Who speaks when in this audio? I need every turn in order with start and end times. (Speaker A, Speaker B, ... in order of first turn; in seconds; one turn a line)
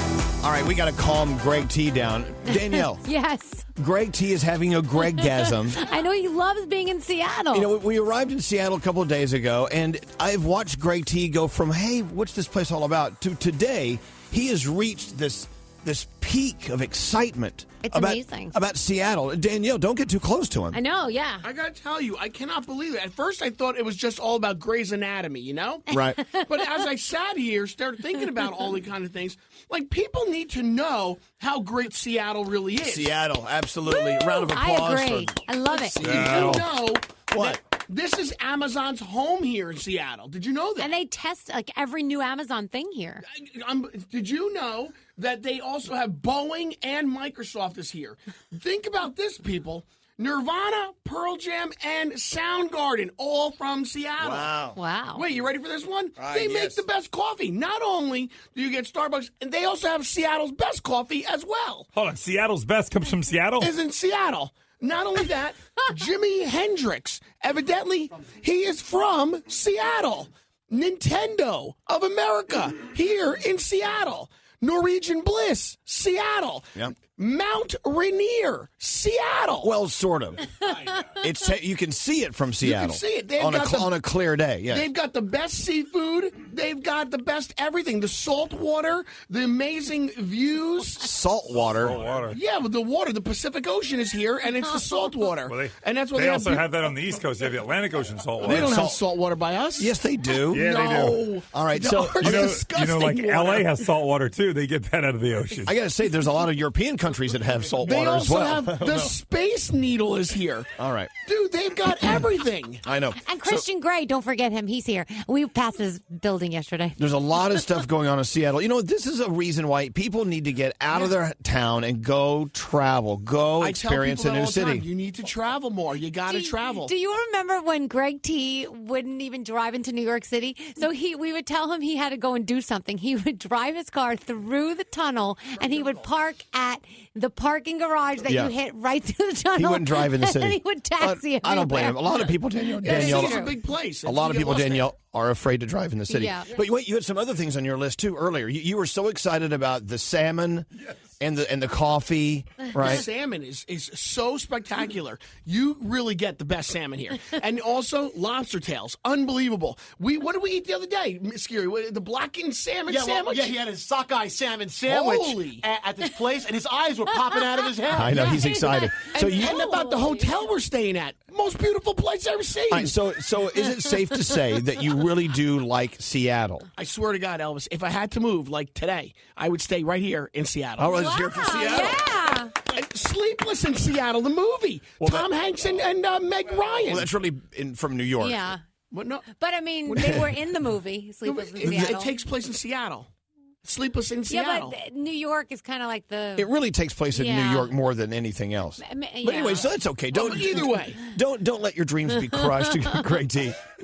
Speaker A: 0.4-3.0
Speaker B: 2.5-3.7
Speaker A: 3.8-5.8
Speaker B: 5.0-7.7
Speaker A: 7.5-20.8
Speaker B: 17.8-18.6
Speaker B: 20.7-21.5
Speaker C: 21.4-33.1
Speaker A: 25.9-26.2
Speaker A: 32.8-35.4
Speaker B: 33.9-36.0
Speaker C: 35.7-40.9
Speaker A: 36.0-36.6
Speaker D: 36.0-36.7
Speaker A: 37.3-37.6
Speaker B: 40.8-43.2
Speaker C: 43.3-54.6
Speaker A: 54.2-54.8
Speaker B: 54.8-55.2
Speaker C: 55.1-61.9
Speaker A: 56.2-56.8
Speaker D: 61.9-63.7
Speaker C: 63.6-79.7
Speaker A: 79.6-80.4
Speaker A: 81.1-84.9
Speaker C: 82.6-83.9
Speaker C: 84.7-91.0
Speaker A: 91.0-92.0
Speaker D: 91.8-92.4
Speaker C: 92.3-96.8
Speaker D: 95.5-98.8
Speaker C: 98.4-99.9
Speaker A: 98.4-99.0
Speaker A: 99.8-101.0
Speaker D: 100.5-101.2
Speaker C: 100.6-103.8
Speaker A: 101.5-102.7
Speaker D: 102.2-105.8
Speaker A: 105.7-109.2
Speaker C: 107.8-112.8
Speaker A: 110.8-111.1
Speaker A: 112.8-113.7
Speaker B: 113.2-117.0
Speaker A: 117.0-124.9
Speaker C: 123.6-126.9
Speaker B: 126.3-143.5
Speaker A: 138.2-138.5
Speaker A: 139.6-143.5
Speaker C: 142.8-144.9
Speaker A: 144.1-150.7
Speaker B: 146.1-146.5
Speaker A: 151.2-153.1
Speaker C: 152.8-163.6
Speaker E: 162.9-168.3
Speaker C: 164.9-165.7
Speaker A: 167.9-169.6
Speaker B: 168.0-170.4
Speaker C: 169.1-172.9
Speaker A: 172.7-176.7
Speaker C: 176.8-181.7
Speaker A: 180.8-182.1
Speaker B: 180.9-182.5
Speaker C: 182.7-187.1
Speaker A: 186.8-188.4
Speaker B: 188.2-188.6
Speaker C: 188.9-189.3
Speaker B: 189.3-192.1
Speaker C: 189.9-190.2
Speaker C: 191.2-193.1
Speaker A: 191.6-191.9
Speaker C: 193.6-194.8
Speaker B: 194.3-196.5
Speaker A: 196.4-203.6
Speaker B: 197.1-197.7
Speaker B: 198.8-199.7
Speaker C: 200.1-201.0